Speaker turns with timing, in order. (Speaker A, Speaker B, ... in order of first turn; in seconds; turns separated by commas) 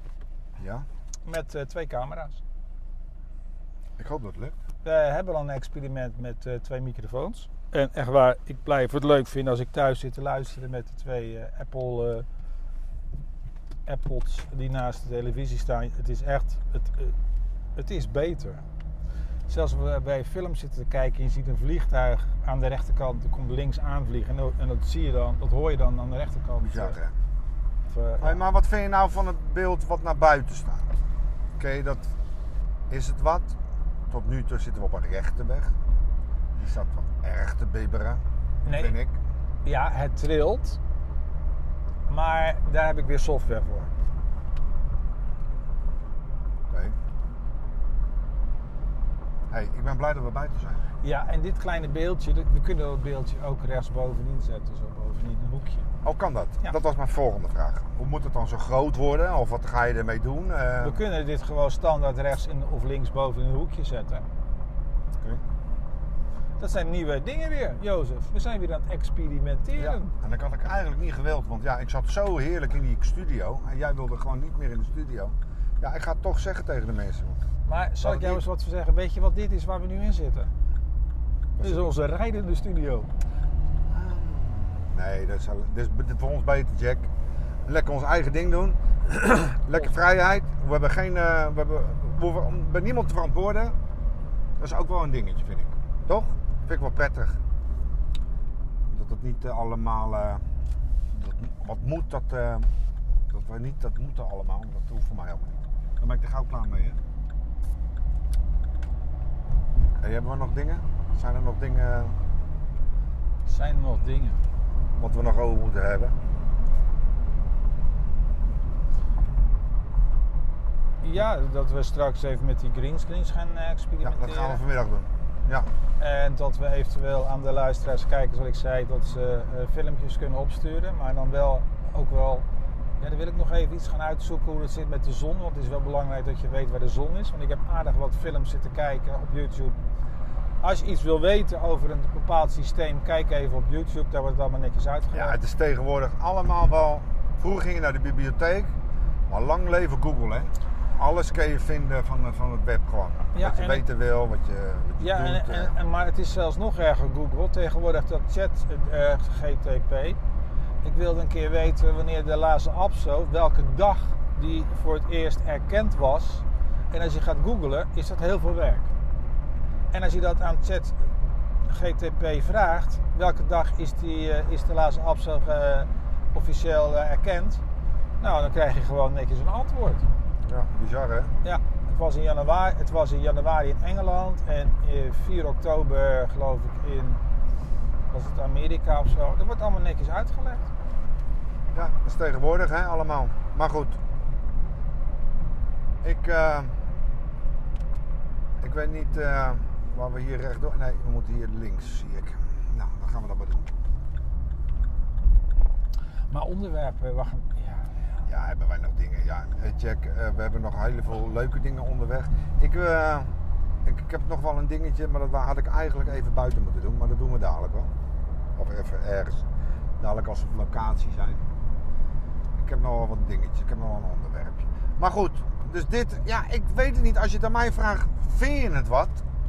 Speaker A: 0.6-0.8, Speaker B: 1.2-2.4, Speaker A: 4.0-4.5, Speaker B: 4.8-12.2, Speaker B: 13.9-17.1, Speaker B: 17.8-18.6, Speaker B: 19.5-26.9, Speaker A: 26.6-27.1, Speaker B: 27.9-28.4, Speaker A: 28.2-30.9, Speaker A: 31.6-32.0, Speaker A: 32.9-33.5, Speaker A: 34.1-35.7, Speaker A: 36.6-39.2, Speaker B: 38.6-39.0, Speaker B: 39.6-40.8, Speaker B: 42.1-43.9, Speaker A: 46.7-47.0, Speaker A: 49.5-50.8, Speaker B: 51.0-55.9, Speaker A: 56.0-61.0, Speaker B: 60.8-64.2, Speaker B: 66.6-70.1, Speaker A: 69.8-77.4, Speaker B: 77.7-80.5, Speaker A: 78.0-78.4, Speaker A: 81.6-81.9, Speaker B: 81.6-83.1, Speaker A: 83.9-87.1, Speaker A: 87.6-93.8, Speaker A: 94.6-97.4, Speaker A: 98.9-100.4, Speaker A: 101.1-102.7, Speaker A: 103.3-107.0, Speaker A: 110.0-112.2, Speaker B: 113.5-114.4, Speaker A: 115.0-116.1, Speaker B: 121.0-124.6, Speaker A: 124.0-125.7, Speaker B: 126.0-132.4, Speaker B: 133.0-139.8, Speaker B: 140.6-145.4, Speaker A: 145.1-148.7, Speaker A: 149.3-155.7, Speaker B: 153.3-153.8, Speaker B: 155.0-160.2, Speaker B: 160.8-168.9, Speaker B: 169.9-171.1, Speaker B: 171.6-177.6, Speaker B: 178.2-180.0, Speaker A: 180.4-181.3, Speaker B: 181.4-187.2, Speaker B: 188.1-190.7, Speaker A: 191.7-194.0, Speaker A: 196.0-196.8, Speaker A: 198.6-203.7, Speaker B: 206.3-208.1, Speaker A: 208.2-213.3, Speaker A: 213.8-217.9, Speaker A: 218.6-219.4, Speaker A: 220.0-221.4, Speaker A: 222.6-229.2